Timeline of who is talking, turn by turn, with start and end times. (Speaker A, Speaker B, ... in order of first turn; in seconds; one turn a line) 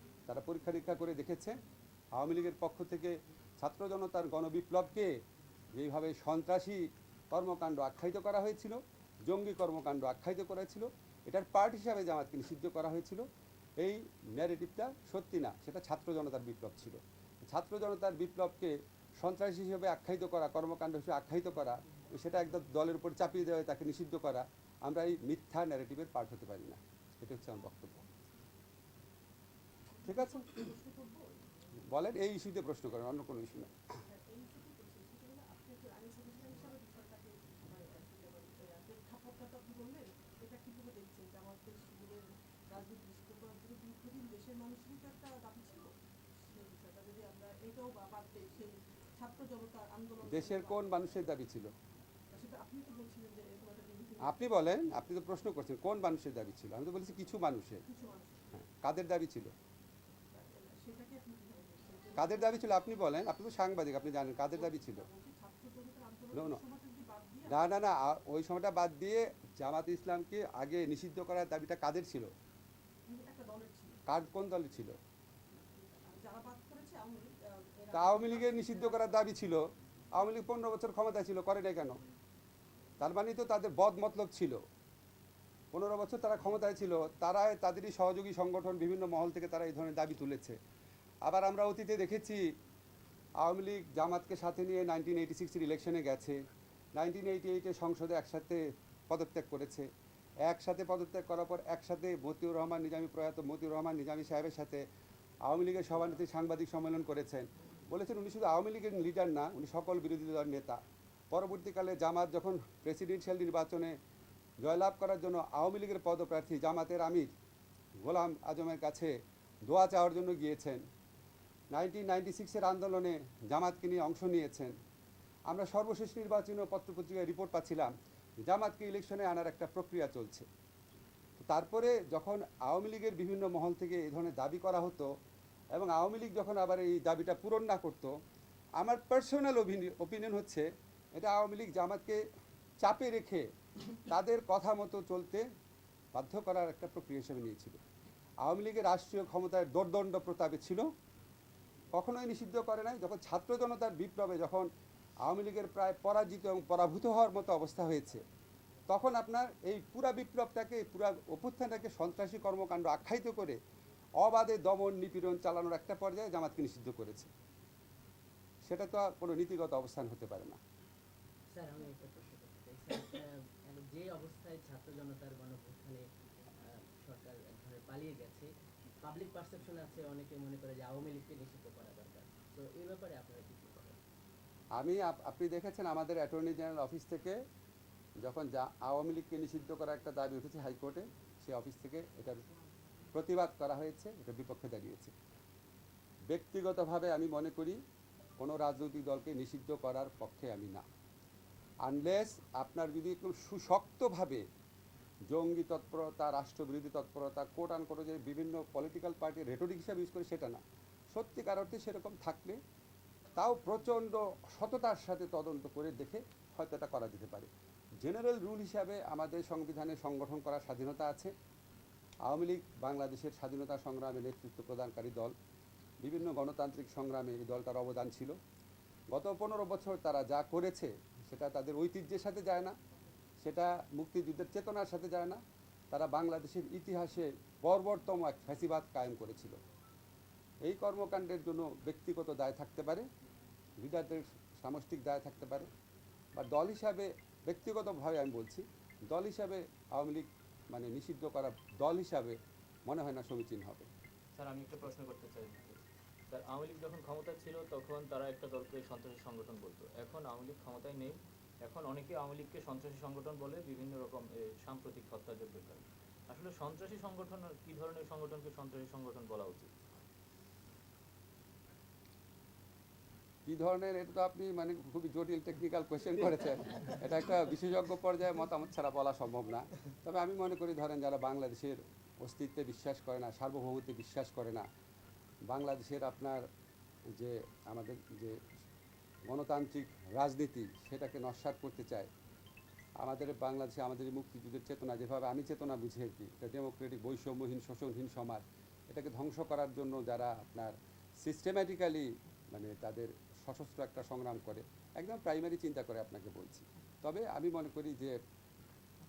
Speaker A: 0.3-1.6
Speaker A: 2.1-5.2
Speaker A: 5.7-13.2
Speaker A: 13.8-28.1
Speaker B: 29.9-31.4
Speaker A: 30.1-30.5
Speaker A: 31.9-33.8
Speaker B: 34.0-45.9
Speaker B: 46.5-51.3
Speaker A: 50.2-51.7
Speaker B: 52.3-54.6
Speaker A: 54.2-57.8
Speaker B: 57.9-58.5
Speaker A: 58.5-59.5
Speaker B: 60.3-62.8
Speaker A: 62.2-65.1
Speaker B: 64.5-67.6
Speaker A: 66.3-66.6
Speaker A: 67.5-72.3
Speaker B: 73.1-74.0
Speaker A: 74.1-75.0
Speaker B: 75.5-79.3
Speaker A: 77.9-82.0
Speaker A: 83.0-84.6
Speaker A: 85.7-90.6
Speaker A: 91.2-92.5
Speaker A: 93.4-96.4
Speaker A: 97.0-99.9
Speaker A: 100.5-104.8
Speaker A: 105.4-110.8
Speaker A: 111.3-114.0
Speaker A: 114.6-117.3
Speaker A: 118.0-119.1
Speaker A: 119.7-120.8
Speaker A: 121.7-124.7
Speaker A: 125.5-130.5
Speaker A: 131.4-135.1
Speaker A: 135.7-138.1
Speaker A: 138.8-142.2
Speaker A: 142.8-143.5
Speaker A: 144.1-145.4
Speaker A: 146.1-147.8
Speaker A: 148.4-150.9
Speaker A: 151.9-154.7
Speaker A: 155.2-158.2
Speaker A: 158.9-163.6
Speaker A: 164.2-167.3
Speaker A: 168.7-170.6
Speaker C: 171.5-176.1
Speaker C: 176.6-178.5
Speaker C: 179.0-184.0
Speaker A: 184.8-187.4
Speaker A: 188.2-192.4
Speaker A: 193.1-195.1
Speaker A: 196.3-197.8
Speaker A: 198.4-200.8
Speaker A: 201.8-204.4
Speaker A: 205.3-210.6
Speaker A: 211.1-212.6
Speaker A: 213.4-217.5
Speaker A: 218.0-221.3
Speaker A: 222.3-225.3
Speaker A: 226.0-228.4
Speaker A: 229.1-232.8
Speaker A: 233.4-235.4
Speaker A: 235.9-239.6
Speaker A: 240.6-243.1
Speaker A: 243.8-245.7
Speaker A: 246.3-253.9
Speaker D: 254.3-269.7
Speaker A: 273.4-284.7
Speaker A: 285.5-286.4
Speaker A: 287.2-288.4
Speaker A: 289.3-292.1
Speaker A: 293.0-308.2